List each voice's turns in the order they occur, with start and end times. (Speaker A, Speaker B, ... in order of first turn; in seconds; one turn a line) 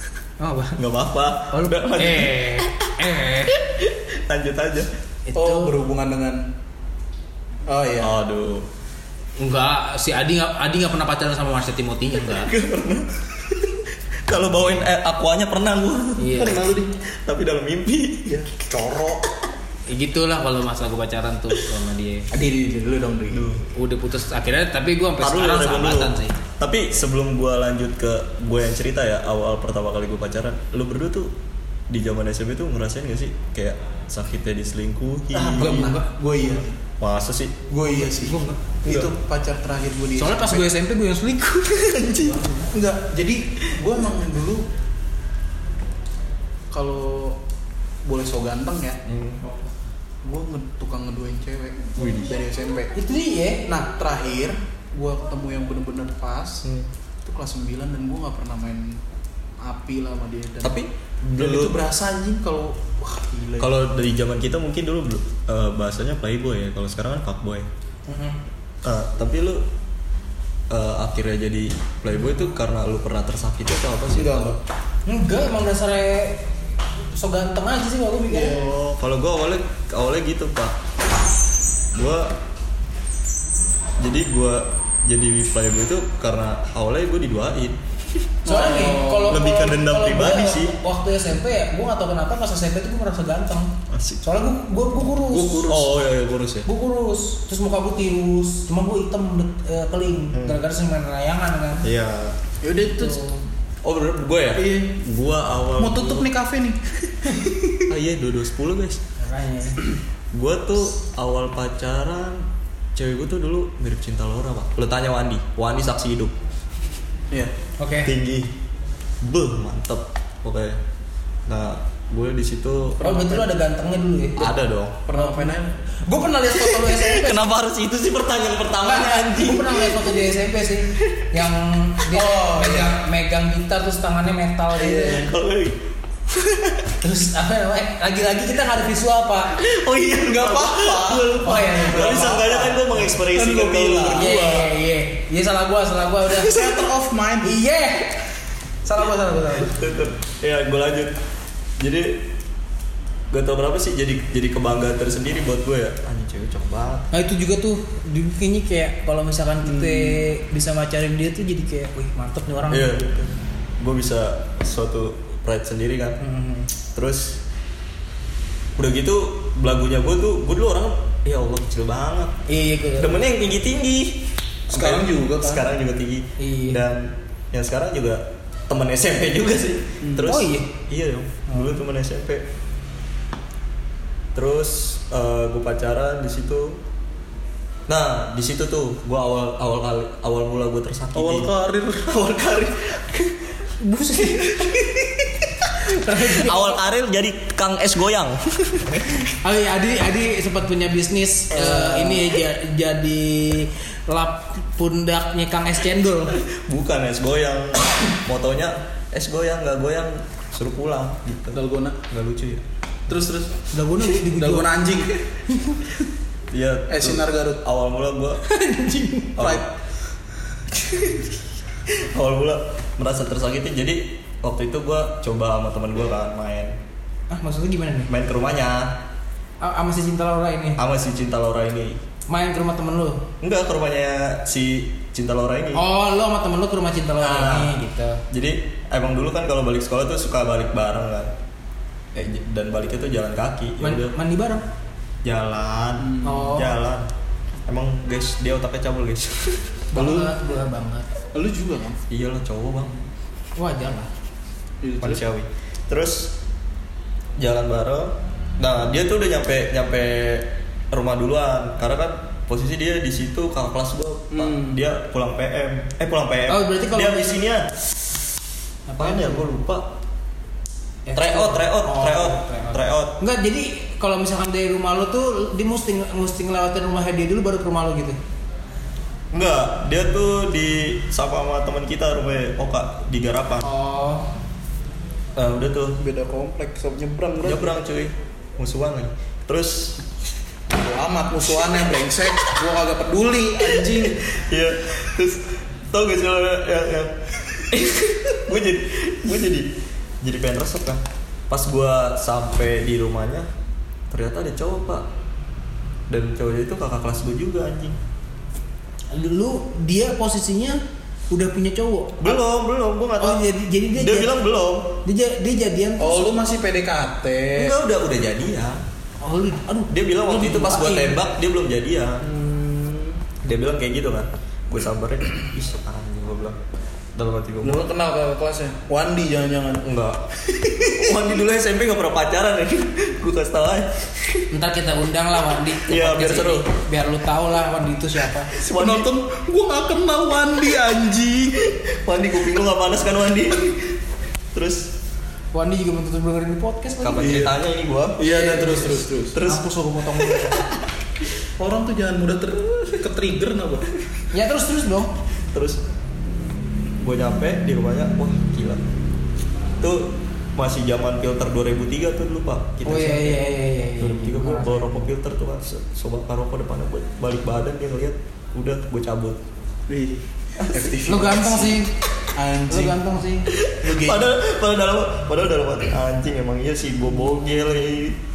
Speaker A: 0.4-0.8
Speaker B: 0.8-4.9
Speaker A: 1.5-3.6
Speaker A: 5.3-5.7
Speaker C: 5.3-6.5
Speaker C: 7.7-8.2
Speaker B: 8.0-8.7
Speaker A: 9.4-12.5
Speaker B: 12.3-16.4
Speaker A: 16.2-16.7
Speaker C: 16.4-16.9
Speaker B: 17.0-18.4
Speaker C: 18.2-19.2
Speaker A: 19.9-22.3
Speaker C: 22.3-23.5
Speaker B: 23.3-23.6
Speaker A: 23.6-26.3
Speaker B: 25.2-31.3
Speaker B: 31.9-36.0
Speaker C: 35.3-36.8
Speaker A: 35.5-36.0
Speaker B: 37.0-37.6
Speaker C: 37.7-40.7
Speaker B: 38.2-39.1
Speaker A: 38.2-38.5
Speaker A: 40.2-42.2
Speaker B: 41.9-42.5
Speaker C: 42.7-44.6
Speaker C: 46.7-47.4
Speaker C: 48.0-49.0
Speaker B: 49.0-49.4
Speaker C: 50.2-52.9
Speaker B: 52.0-52.3
Speaker A: 52.9-53.7
Speaker C: 53.7-56.6
Speaker C: 57.2-59.0
Speaker C: 59.6-60.8
Speaker B: 60.6-61.8
Speaker C: 61.4-63.8
Speaker B: 63.6-67.7
Speaker A: 68.1-68.4
Speaker B: 68.8-69.6
Speaker B: 70.7-74.6
Speaker C: 74.1-74.6
Speaker A: 75.0-76.5
Speaker A: 77.1-78.7
Speaker C: 78.3-78.7
Speaker B: 78.5-80.8
Speaker B: 81.9-82.3
Speaker B: 84.0-88.3
Speaker C: 88.4-89.4
Speaker A: 88.5-95.7
Speaker B: 89.3-90.7
Speaker B: 93.9-94.2
Speaker C: 95.3-95.9
Speaker B: 95.6-96.7
Speaker A: 96.7-101.9
Speaker B: 100.3-100.6
Speaker B: 101.8-102.4
Speaker C: 102.6-103.3
Speaker A: 102.9-103.4
Speaker B: 103.8-106.3
Speaker C: 104.5-105.0
Speaker C: 105.8-106.8
Speaker C: 107.4-107.8
Speaker B: 107.9-109.0
Speaker A: 109.2-109.8
Speaker B: 110.3-116.3
Speaker A: 117.8-118.1
Speaker B: 118.0-118.5
Speaker B: 119.2-120.8
Speaker B: 121.5-123.4
Speaker A: 123.0-124.5
Speaker C: 123.1-123.3
Speaker B: 124.4-125.0
Speaker C: 125.1-125.7
Speaker A: 125.1-127.4
Speaker B: 126.5-130.2
Speaker A: 128.8-135.3
Speaker B: 130.9-131.4
Speaker C: 132.1-133.0
Speaker C: 134.8-135.3
Speaker B: 135.1-136.9
Speaker A: 137.0-139.6
Speaker B: 139.5-144.7
Speaker C: 140.2-144.5
Speaker A: 141.4-142.1
Speaker A: 144.1-146.7
Speaker C: 146.3-147.6
Speaker A: 147.4-148.2
Speaker A: 148.8-149.7
Speaker B: 149.7-151.2
Speaker B: 151.8-152.2
Speaker B: 153.3-157.1
Speaker A: 157.1-163.0
Speaker C: 159.7-160.2
Speaker B: 162.7-166.2
Speaker A: 166.2-166.7
Speaker B: 166.9-167.4
Speaker B: 168.8-172.4
Speaker A: 172.5-173.2
Speaker B: 173.0-182.4
Speaker C: 174.7-175.7
Speaker A: 176.4-176.8
Speaker C: 180.0-180.4
Speaker A: 180.2-180.7
Speaker B: 184.3-186.8
Speaker B: 187.9-191.5
Speaker C: 191.1-192.3
Speaker B: 192.1-199.2
Speaker A: 193.8-194.6
Speaker A: 195.8-196.8
Speaker A: 199.2-206.4
Speaker B: 201.6-201.9
Speaker B: 206.3-212.6
Speaker C: 211.5-212.0
Speaker C: 213.1-215.2
Speaker A: 213.7-215.9
Speaker B: 216.5-218.4
Speaker C: 216.9-217.6
Speaker A: 218.4-219.4
Speaker B: 219.3-219.6
Speaker C: 219.4-219.7
Speaker B: 220.7-226.7
Speaker A: 227.3-228.1
Speaker B: 228.1-229.0
Speaker A: 229.6-230.8
Speaker B: 230.8-232.0
Speaker A: 232.3-233.2
Speaker B: 233.4-235.8
Speaker A: 235.7-238.2
Speaker B: 237.2-237.7
Speaker B: 238.3-241.3
Speaker B: 242.1-244.2
Speaker A: 243.8-244.6
Speaker B: 245.2-247.1
Speaker C: 246.0-246.6
Speaker A: 246.2-246.7
Speaker B: 247.7-250.4
Speaker A: 249.9-251.1
Speaker C: 251.3-252.0
Speaker B: 252.1-252.9
Speaker A: 253.6-254.1
Speaker C: 254.8-255.2
Speaker B: 255.0-256.3
Speaker B: 257.4-267.7
Speaker C: 264.3-264.8
Speaker A: 266.5-267.3
Speaker A: 268.9-269.4
Speaker B: 269.0-269.9
Speaker A: 271.1-278.2
Speaker B: 271.1-273.2
Speaker B: 279.3-283.7
Speaker A: 283.6-284.3
Speaker B: 285.3-286.0
Speaker C: 286.0-287.8
Speaker B: 287.4-290.0
Speaker C: 290.7-294.2
Speaker B: 293.6-299.7
Speaker B: 300.2-303.5
Speaker B: 304.1-305.0
Speaker B: 306.1-308.0
Speaker A: 309.1-310.8
Speaker A: 311.3-312.4
Speaker B: 312.2-315.0
Speaker A: 313.2-314.3
Speaker A: 315.0-316.4
Speaker C: 316.0-317.8
Speaker B: 317.5-318.8
Speaker A: 319.2-321.2
Speaker B: 319.9-322.2
Speaker C: 322.2-323.2
Speaker B: 323.4-326.6
Speaker B: 327.1-327.9
Speaker C: 327.6-329.8
Speaker B: 329.8-334.5
Speaker C: 330.5-331.2
Speaker A: 334.5-338.5
Speaker B: 335.8-336.7
Speaker B: 338.5-339.1
Speaker C: 338.6-341.7
Speaker B: 341.6-344.0
Speaker B: 344.5-344.9
Speaker A: 345.5-347.5
Speaker B: 347.0-348.4
Speaker C: 348.2-349.4
Speaker A: 348.3-350.7
Speaker B: 349.3-350.8
Speaker C: 351.6-353.9
Speaker A: 354.3-355.1
Speaker B: 355.5-355.8
Speaker B: 357.0-358.8
Speaker B: 359.8-369.4
Speaker A: 362.8-365.1
Speaker C: 369.9-371.8
Speaker A: 371.1-371.9
Speaker C: 372.3-373.0
Speaker A: 372.7-373.5
Speaker B: 373.5-378.2
Speaker C: 373.8-374.3